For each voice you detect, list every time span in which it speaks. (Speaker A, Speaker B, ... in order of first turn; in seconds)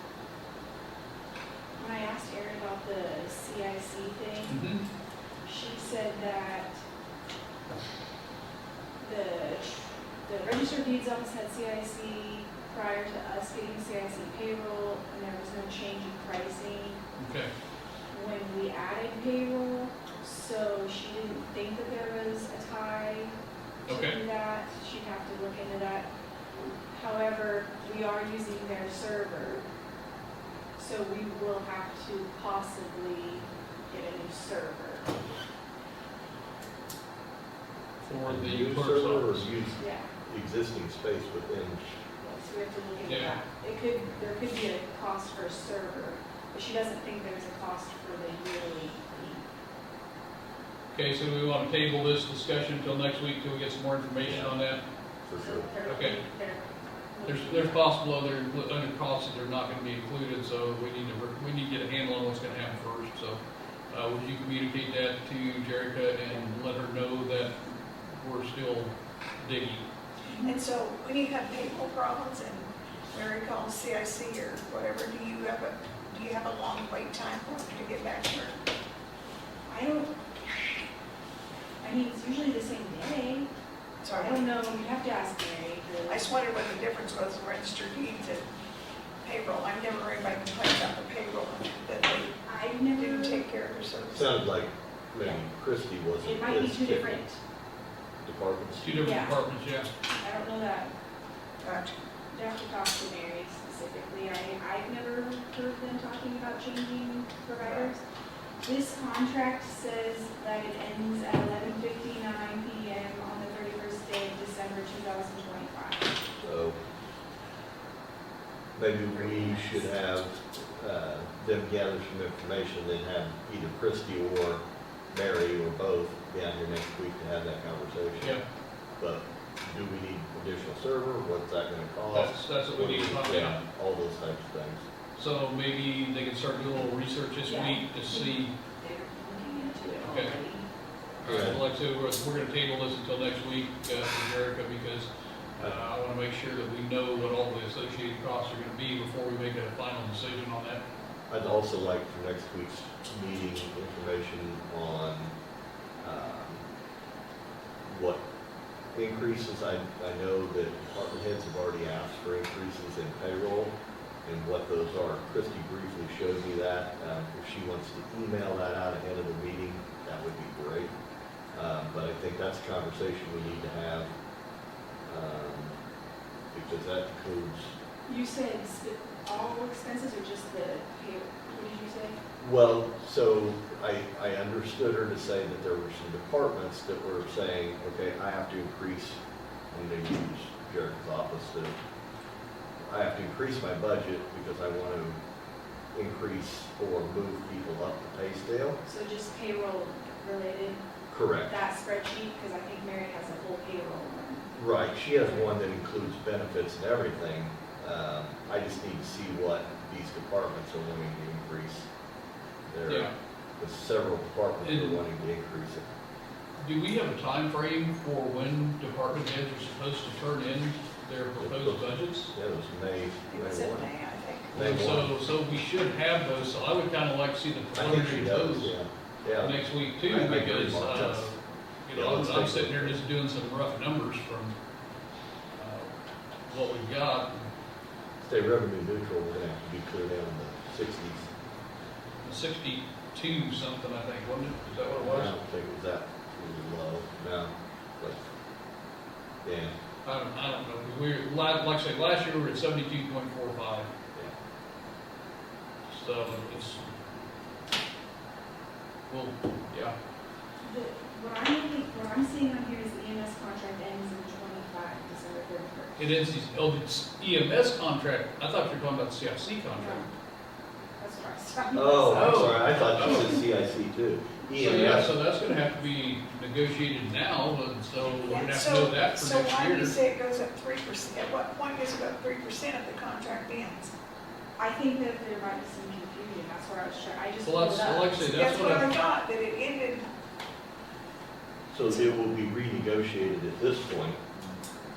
Speaker A: 1.8-4.6, 5.4-6.8, 9.0-17.0, 18.1-23.3, 23.9-26.1, 26.9-29.7, 30.8-35.1, 39.8-40.1, 42.2-49.4, 55.4-57.8, 70.2-70.6, 79.7-80.1, 81.8-83.5, 84.1-86.3, 92.4-93.5, 96.2-97.4, 99.0-99.4, 100.1-100.9, 102.3-108.0, 108.6-116.1, 119.1-119.7, 137.4-140.7, 178.1-182.2, 198.8-200.8, 201.5-204.5, 205.2-205.5, 260.6-266.2, 269.7-270.1, 270.9-272.4, 284.6-288.8
Speaker B: 4.5-4.8, 17.2-17.5, 23.9-24.1, 38.0-39.5, 43.0-43.4, 50.9-54.8, 55.9-56.2, 57.2-63.4, 63.9-67.6, 68.1-69.8, 98.8-99.9, 132.1-133.6, 135.2-138.5, 140.0-140.3, 141.2-150.8, 212.9-213.1, 214.6-215.0, 216.6-222.3, 224.5-228.8, 229.4-234.6, 235.6-235.9, 236.5-237.5, 242.2-245.3, 250.0-253.9, 255.9-256.8, 259.1-259.9, 266.0-270.1, 272.0-273.4, 274.5-280.0, 287.4-288.9
Speaker C: 38.2-41.8, 54.2-54.6, 55.2-55.7, 94.1-97.2, 98.2-99.1, 116.4-116.8, 118.8-128.4, 129.0-134.8, 141.2-141.6, 151.3-155.3, 156.0-156.6, 157.8-158.2, 158.9-170.9, 171.5-174.1, 175.1-175.8, 176.5-177.7, 182.4-189.2, 189.7-191.8, 192.8-195.2, 195.9-198.8, 201.1-201.5, 204.5-211.9, 212.7-215.8, 221.4-223.9, 224.5-225.1, 227.7-231.3, 231.9-233.0, 238.2-241.3, 245.0-248.2, 249.4-249.7, 271.7-275.1, 291.7-294.2
Speaker D: 70.4-78.6, 84.0-84.8, 86.1-88.5, 89.2-92.4, 92.9-94.4, 101.6-101.9, 107.6-107.9, 223.3-224.6, 278.0-283.9, 288.2-290.1